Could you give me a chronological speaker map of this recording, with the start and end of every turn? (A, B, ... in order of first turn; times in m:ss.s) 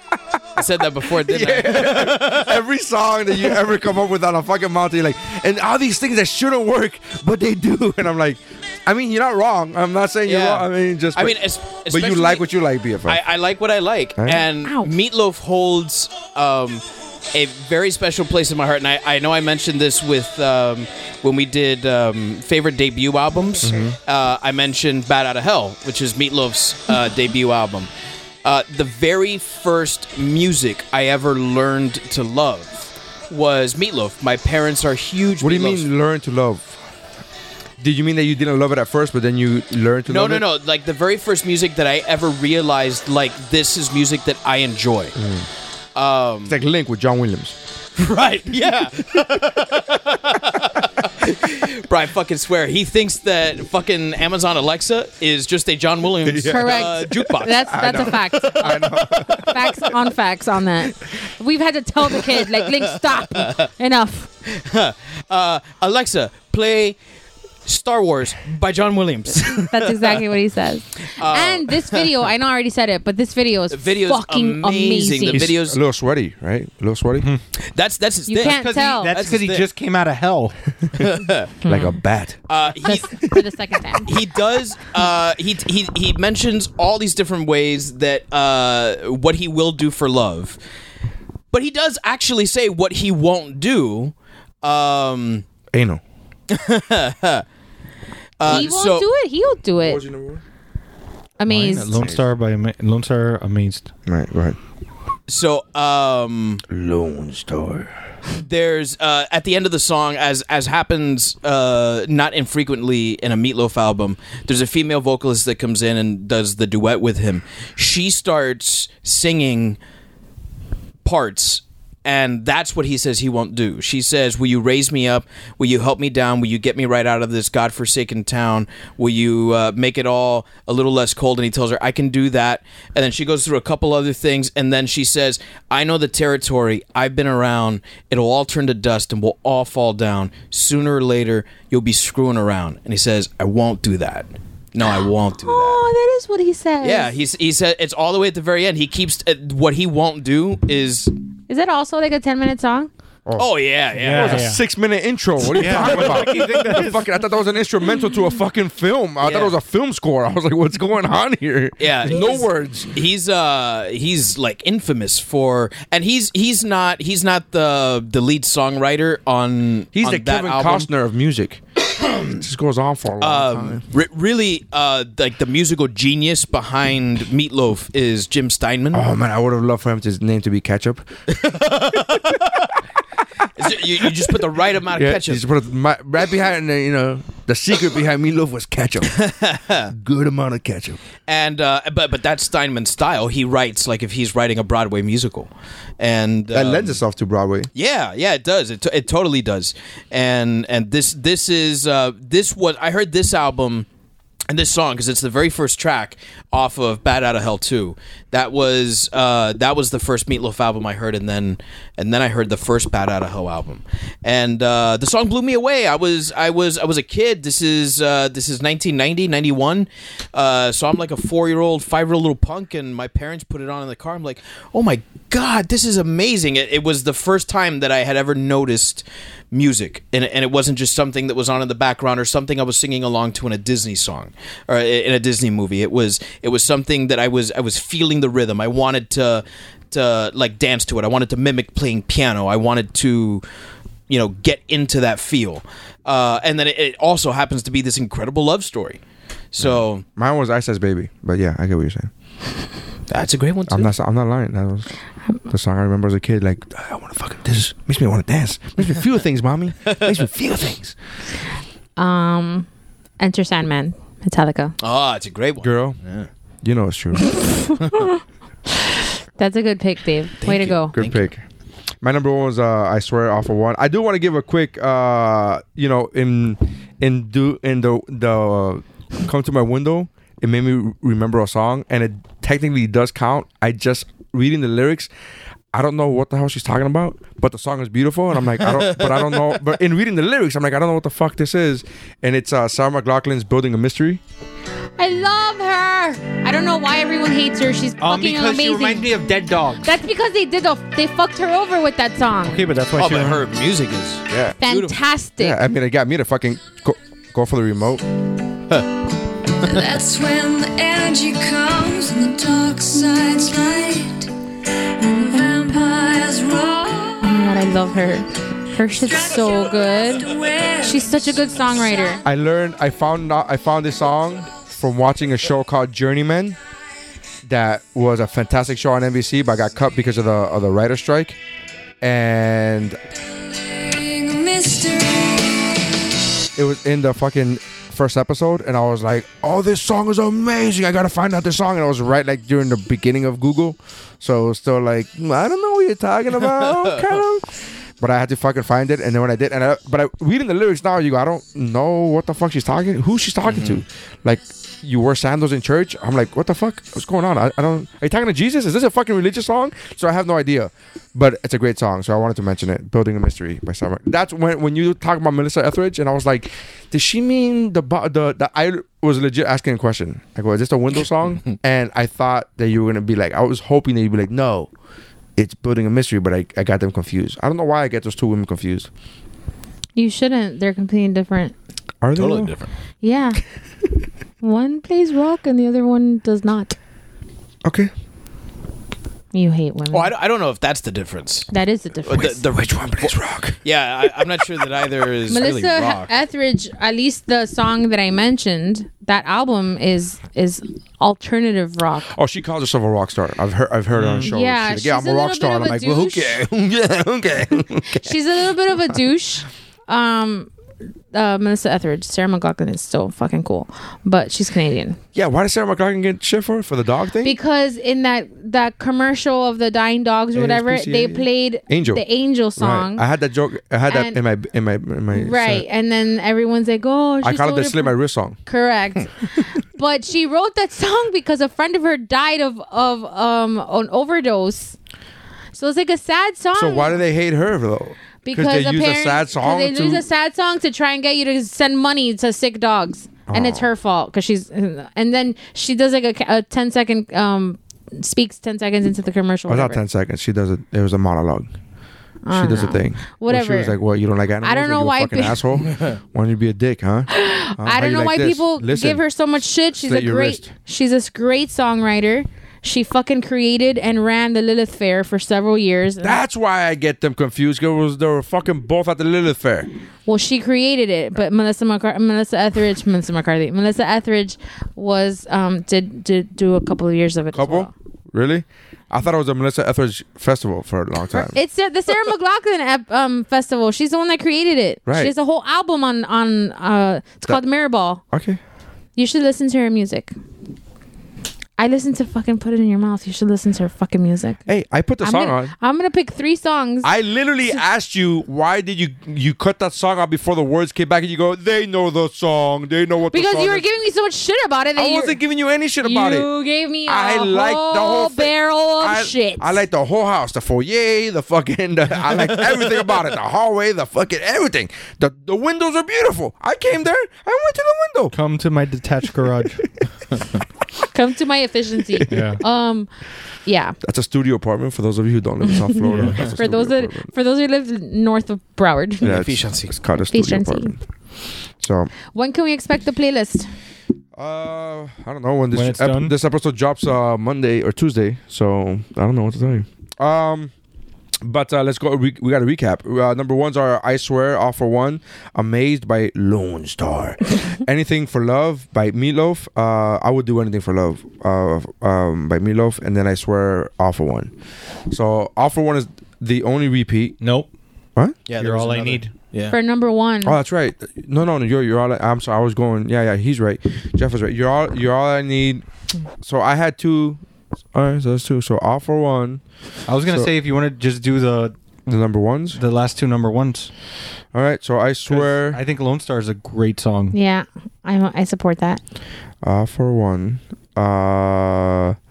0:00.6-0:02.6 A
0:01.2-0:13.2 B
0:10.3-0:12.5 A
0:13.0-0:27.9 A
0:14.2-0:14.5 B
0:14.6-0:14.9 C
0:23.6-0:24.0 B
0:28.4-0:35.9 A
0:35.4-0:36.8 B
0:37.8-0:40.4 B
0:40.1-0:45.2 A
0:45.2-0:45.5 B
0:46.0-0:46.6 A
0:46.5-0:47.6 B
0:48.0-0:58.3 A
0:56.2-0:59.9 B
0:56.5-1:04.3 C
1:02.8-1:03.7 A
1:04.5-1:07.0 A
1:07.6-1:10.3 A
1:09.6-1:15.5 C
1:11.1-1:12.3 A
1:13.7-1:15.8 A
1:15.3-1:17.3 B
1:17.7-1:19.7 A
1:18.3-1:19.1 C
1:18.4-1:20.6 D
1:21.0-1:21.6 A
1:21.6-1:21.9 C
1:21.7-1:22.5 B
1:22.5-1:23.3 A
1:22.8-1:24.1 C
1:24.0-1:30.6 A
1:31.5-1:35.4 A
1:35.7-1:36.0 B
1:36.5-1:37.4 A
1:38.4-1:39.1 A
1:38.5-1:38.7 B
1:38.5-1:40.0 C
1:39.8-1:40.4 B
1:41.4-1:42.0 C
1:41.5-1:43.9 D
1:41.9-1:42.2 B
1:44.1-1:44.6 B
1:45.3-1:46.6 A
1:46.7-1:47.9 B
1:48.4-1:59.8 A
2:01.0-2:25.8 A
2:25.4-2:27.1 C
2:26.8-2:31.1 A
2:31.5-2:32.9 C
2:33.3-2:42.9 B
2:33.4-2:34.5 A
2:34.0-2:34.6 D
2:35.5-2:37.1 D
2:35.6-2:36.2 A
2:39.2-2:39.5 A
2:41.8-2:50.9 A
2:50.0-2:51.6 B
2:52.0-2:52.3 A
2:52.2-2:53.8 B
2:53.2-2:59.1 A
2:58.9-3:01.1 B
3:01.3-3:02.7 A
3:03.6-3:05.4 A
3:04.9-3:09.2 B
3:09.1-3:09.9 A
3:09.9-3:11.0 B
3:11.3-3:17.0 A
3:16.5-3:17.7 B
3:17.8-3:23.9 A
3:24.5-4:03.4 A
4:04.1-4:09.0 A
4:09.5-4:10.0 A
4:09.6-4:12.1 B
4:13.1-4:13.9 A
4:13.7-4:14.9 B
4:15.5-4:21.0 B
4:19.9-4:20.2 A
4:22.0-4:22.7 C
4:23.2-4:24.8 C
4:24.8-4:26.3 A
4:25.6-4:26.0 B
4:26.6-4:27.4 B
4:27.3-4:28.1 C
4:28.7-4:31.0 C
4:30.4-4:31.2 A
4:30.9-4:31.4 B
4:32.0-4:45.1 B
4:45.7-4:54.2 B
4:48.6-4:49.6 A
4:55.0-4:59.1 C
4:58.0-5:00.0 D
4:59.8-5:02.7 C
5:02.5-5:03.4 D
5:03.0-5:05.0 A
5:04.3-5:04.6 B
5:04.6-5:05.6 C
5:05.4-5:08.0 B
5:09.7-5:14.3 E
5:15.0-5:17.6 E
5:17.2-5:20.3 C
5:18.9-5:22.2 E
5:20.8-5:22.2 C
5:22.2-5:26.6 B
5:27.4-5:31.4 B
5:32.0-5:33.0 B
5:33.4-5:36.0 E
5:36.6-5:47.5 B
5:46.4-5:47.2 A
5:48.0-6:14.7 B
5:53.5-5:53.8 A
6:15.4-6:18.9 B
6:20.0-6:21.5 C
6:22.0-6:22.6 B
6:22.2-6:22.7 A
6:23.0-6:23.4 C
6:24.4-6:26.8 C
6:27.6-6:27.9 B
6:29.3-6:30.1 C
6:29.9-6:31.5 A
6:31.5-6:32.4 C
6:32.0-6:36.1 A
6:32.5-6:33.6 B
6:35.3-6:42.1 C
6:42.1-6:48.2 B
6:44.0-6:44.3 A
6:44.3-6:46.4 C
6:48.0-6:50.5 C
6:48.7-6:49.0 B
6:51.1-6:55.0 C
6:55.2-6:57.4 B
6:57.2-7:03.0 C
7:00.3-7:02.0 B
7:02.6-7:05.7 B
7:03.9-7:04.2 C
7:05.1-7:14.8 C
7:07.2-7:08.4 B
7:15.6-7:17.0 C
7:16.5-7:20.1 B
7:18.2-7:29.8 C
7:23.3-7:23.7 B
7:29.5-7:31.5 B
7:32.2-7:33.8 C
7:32.3-7:39.0 B
7:34.4-7:35.4 C
7:37.1-7:46.2 C
7:39.8-7:40.5 B
7:46.0-7:49.7 B
7:50.1-7:57.7 C
7:57.3-8:01.4 B
8:01.1-8:08.0 C
8:04.9-8:05.1 B
8:08.1-8:08.4 B
8:09.0-8:10.1 C
8:11.6-8:14.4 C
8:14.5-8:15.5 B
8:15.0-8:16.9 C
8:16.8-8:23.7 B
8:23.1-8:25.2 C
8:24.8-8:26.3 B
8:25.8-8:29.6 C
8:26.9-8:38.2 B
8:38.1-8:39.7 D
8:40.9-8:42.9 C
8:41.9-8:42.3 B
8:42.1-8:42.4 D
8:43.4-8:43.8 C
8:43.8-8:47.1 B
8:45.6-8:49.1 C
8:45.9-8:46.2 D
8:49.0-8:49.7 A
8:49.0-8:50.8 B
8:50.1-8:50.7 C
8:51.6-8:51.9 B
8:52.1-8:53.5 C
8:54.2-9:00.5 B
8:55.5-8:56.2 D
9:01.2-9:14.3 B
9:14.9-9:17.2 B
9:17.2-9:17.5 D
9:18.3-9:19.6 A
9:18.4-9:19.1 D
9:19.5-9:20.4 C
9:20.2-9:25.6 B
9:26.2-9:27.2 B
9:27.7-9:29.4 B
9:29.9-9:31.6 D
9:30.1-9:30.3 B
9:31.9-9:32.6 B
9:32.6-9:33.7 D
9:34.3-9:35.6 B
9:35.1-9:37.2 D
9:37.1-9:38.8 C
9:39.4-9:42.0 B